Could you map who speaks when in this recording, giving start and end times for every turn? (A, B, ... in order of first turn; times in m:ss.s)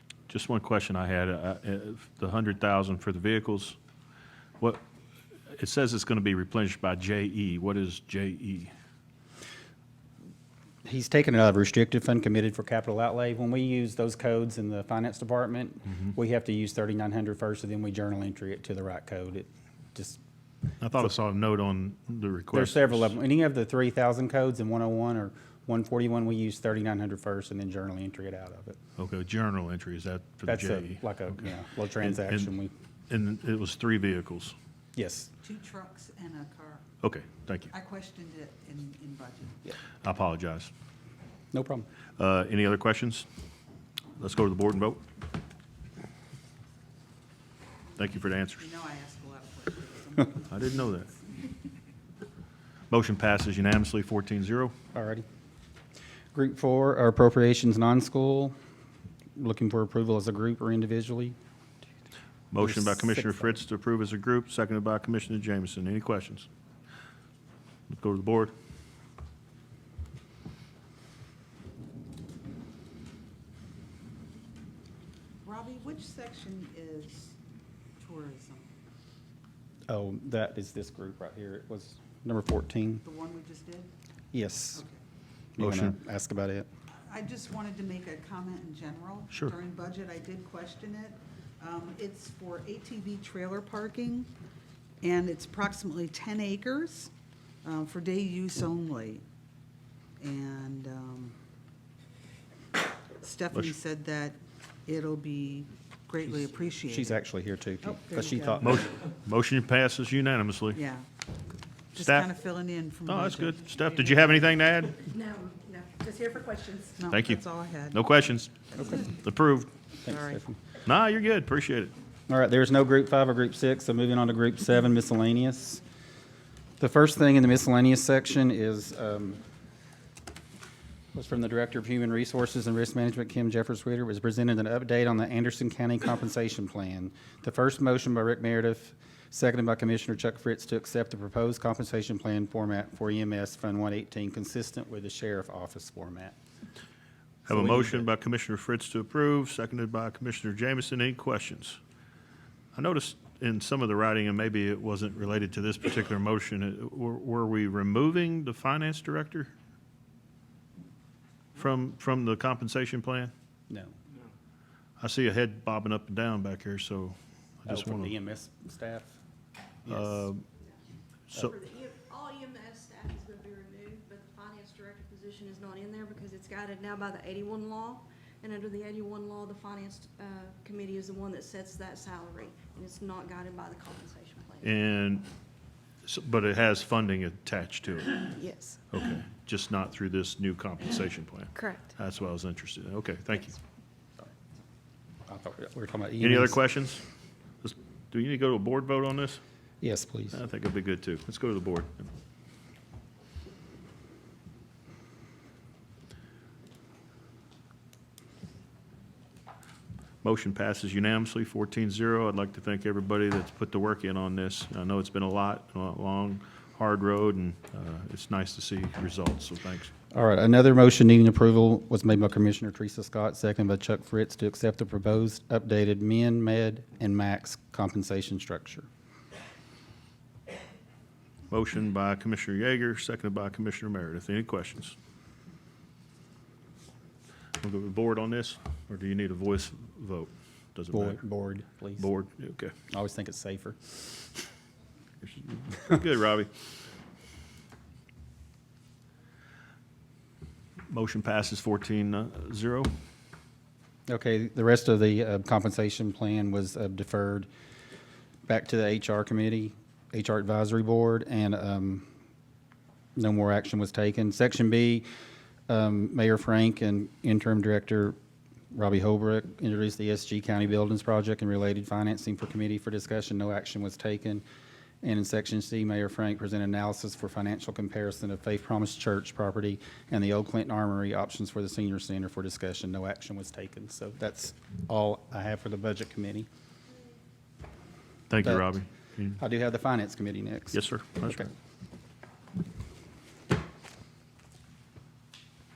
0:00.3-0:03.8 A
0:05.5-0:08.7 A
0:10.8-0:20.2 B
0:20.8-0:23.2 A
0:22.5-0:28.8 B
0:29.0-0:31.5 A
0:30.5-0:32.7 B
0:32.0-0:32.5 A
0:33.1-0:34.6 A
0:35.0-0:35.3 B
0:35.4-0:36.8 C
0:37.0-0:37.7 A
0:37.7-0:39.6 C
0:40.0-0:40.7 A
0:41.5-0:41.9 B
0:42.2-0:43.3 A
0:44.2-0:45.0 A
0:48.0-0:48.7 A
0:48.6-0:51.5 C
0:50.5-0:51.1 A
0:52.9-0:54.7 A
0:54.9-0:55.3 B
0:56.3-0:58.6 B
0:59.4-1:01.4 B
1:02.5-1:06.5 A
1:02.6-1:03.6 B
1:07.9-1:08.5 A
1:15.4-1:17.4 C
1:18.0-1:18.7 C
1:19.9-1:23.0 B
1:23.0-1:23.9 C
1:24.3-1:24.8 B
1:24.8-1:25.0 C
1:25.6-1:26.7 B
1:25.6-1:26.0 A
1:26.9-1:34.3 C
1:35.0-1:37.1 C
1:37.6-1:39.2 C
1:40.2-1:41.4 C
1:43.2-1:47.2 C
1:46.3-1:48.9 B
1:47.8-1:48.8 C
1:48.6-1:50.8 A
1:50.7-1:51.1 C
1:51.9-1:54.1 C
1:52.0-1:52.3 A
1:53.1-1:55.1 A
1:55.0-1:56.9 D
1:56.8-1:58.0 C
1:57.1-1:59.7 A
1:58.8-1:59.1 B
2:00.0-2:00.6 B
2:00.1-2:00.4 C
2:00.8-2:01.9 A
2:02.3-2:05.8 B
2:06.8-2:09.4 B
2:11.1-2:26.4 B
2:27.5-2:28.0 B
2:27.5-2:31.8 A
2:32.8-2:39.5 A
2:41.6-2:43.3 A
2:43.7-2:44.0 B
2:45.0-2:48.2 A
2:47.7-2:49.2 B
2:49.8-2:50.3 B
2:49.9-2:50.5 A
2:51.3-3:04.7 D
3:04.6-3:05.3 A
3:06.0-3:08.3 A
3:08.4-3:08.8 D
3:08.9-3:13.6 A
3:11.6-3:11.9 D
3:15.3-3:16.6 B
3:16.2-3:17.0 A
3:17.6-3:19.4 A
3:19.8-3:20.4 B
3:20.3-3:22.1 A
3:30.2-3:39.9 A
3:40.1-3:48.9 B
3:51.5-3:55.0 A
3:57.6-4:01.2 A
4:00.9-4:02.1 B
4:02.0-4:02.7 A
4:02.9-4:04.2 B
4:05.2-4:06.5 A
4:10.9-4:13.0 A
4:14.1-4:17.5 B
4:18.5-4:22.1 B
4:23.2-4:25.0 B
4:25.7-4:28.2 B
4:28.7-4:34.4 B
4:35.0-4:46.5 B
4:48.3-4:49.4 A
4:48.4-4:48.7 B
4:49.4-4:51.5 B
4:50.7-4:51.5 A